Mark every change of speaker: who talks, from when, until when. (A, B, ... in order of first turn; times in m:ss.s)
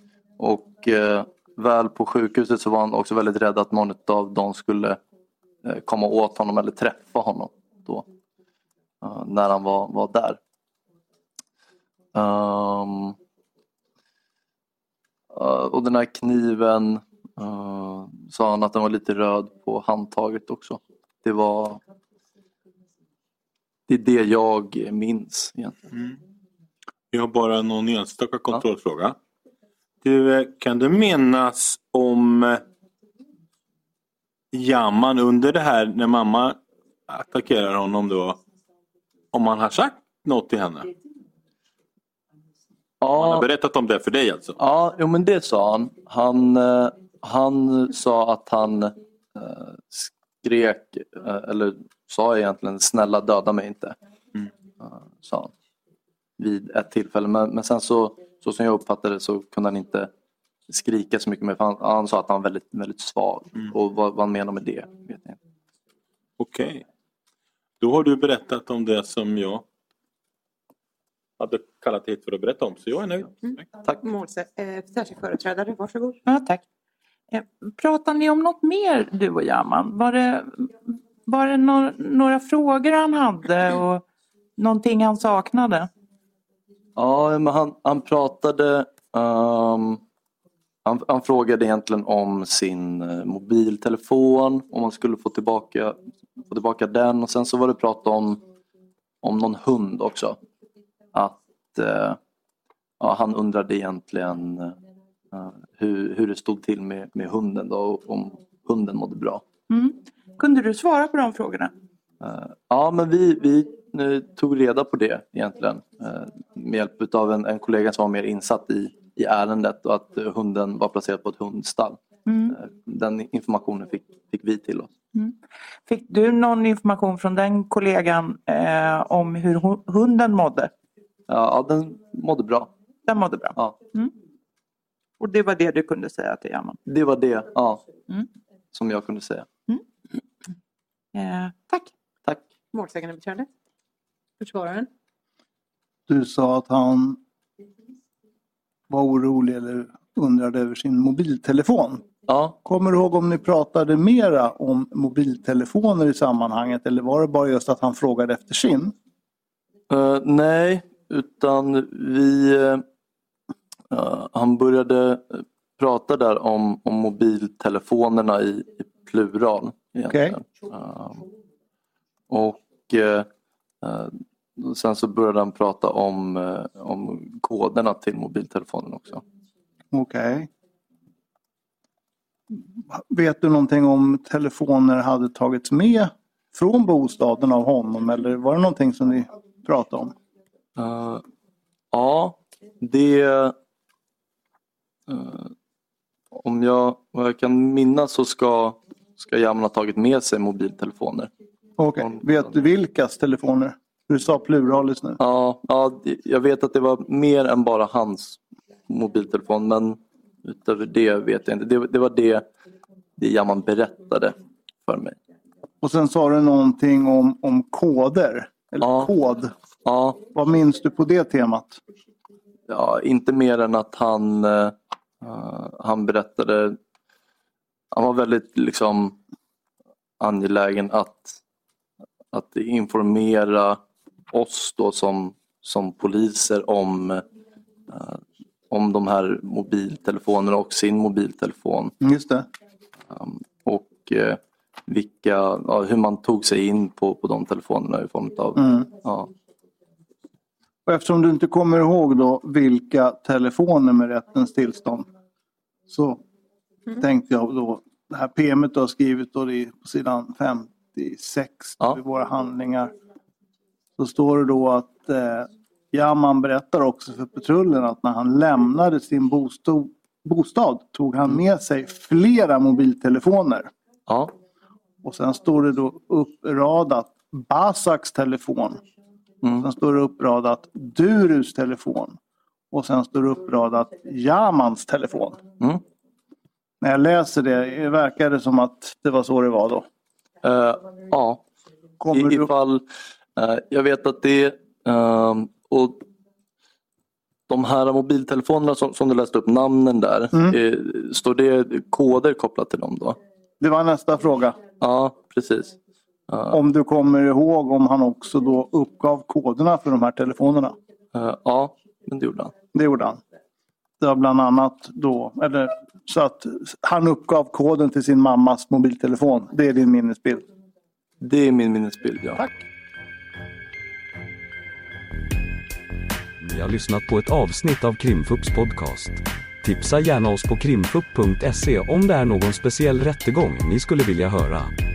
0:00.4-0:05.0 A
0:05.6-0:08.0 A
0:09.0-0:10.4 A
0:12.1-0:13.2 A
0:15.3-0:21.8 A
0:23.9-0:25.9 A
0:25.9-0:26.2 B
0:27.1-0:29.2 B
0:30.0-0:32.6 B
0:34.5-0:36.6 B
0:37.1-0:38.4 B
0:39.3-0:40.9 B
0:43.0-0:43.5 A
0:43.1-0:44.6 B
0:44.6-0:54.0 A
0:54.8-0:55.5 A
0:56.4-1:00.1 A
1:00.7-1:05.4 A
1:06.4-1:06.8 B
1:07.8-1:09.6 B
1:11.4-1:13.6 B
1:14.0-1:16.2 C
1:16.2-1:16.6 D
1:17.3-1:20.7 D
1:21.2-1:24.0 D
1:24.6-1:25.9 D
1:27.0-1:30.0 A
1:30.8-1:38.4 A
1:39.2-1:40.4 A
1:41.1-1:42.2 A
1:43.0-1:44.8 A
1:45.3-1:49.4 A
1:49.7-1:51.7 D
1:52.2-2:02.0 A
2:02.2-2:02.5 D
2:02.5-2:04.9 A
2:05.8-2:10.7 D
2:11.3-2:12.7 A
2:13.0-2:14.1 D
2:15.2-2:16.8 D
2:16.8-2:17.8 A
2:18.7-2:19.5 A
2:21.1-2:21.9 D
2:22.7-2:23.5 C
2:24.4-2:24.9 C
2:26.1-2:27.2 E
2:28.9-2:32.0 E
2:32.3-2:32.6 A
2:32.6-2:38.9 E
2:39.9-2:42.8 A
2:43.9-2:51.2 A
2:52.3-2:53.3 A
2:53.8-2:59.2 A
2:59.9-3:00.5 E
3:02.9-3:10.1 E
3:10.8-3:11.2 A
3:11.9-3:13.5 A
3:15.1-3:15.5 A
3:16.3-3:21.3 A
3:21.8-3:25.2 E
3:25.2-3:32.5 A
3:33.2-3:35.2 A
3:35.8-3:39.5 E
3:38.8-3:39.1 A
3:39.8-3:40.2 A
3:40.2-3:41.8 E
3:42.7-3:46.8 A
3:47.9-3:49.2 A
3:50.2-3:51.4 A
3:52.3-3:53.8 A
3:54.3-3:57.2 A
3:57.9-4:01.9 A
4:02.0-4:02.5 E
4:03.1-4:09.3 A
4:08.6-4:08.9 E
4:10.8-4:15.1 E
4:15.9-4:16.2 E
4:16.9-4:22.9 E
4:24.0-4:33.7 E
4:34.1-4:34.3 A
4:35.0-4:38.8 E
4:39.6-4:42.2 E
4:42.7-4:45.4 E
4:46.8-4:49.8 E
4:50.4-4:51.4 A
4:52.0-4:52.5 E
4:52.1-4:56.0 A
4:57.5-5:03.2 A
5:03.6-5:04.6 E
5:04.8-5:05.8 A
5:06.3-5:06.6 A
5:06.5-5:10.8 E
5:11.1-5:12.5 A
5:12.7-5:13.2 E
5:14.0-5:20.5 E
5:21.2-5:22.4 A
5:26.4-5:34.7 F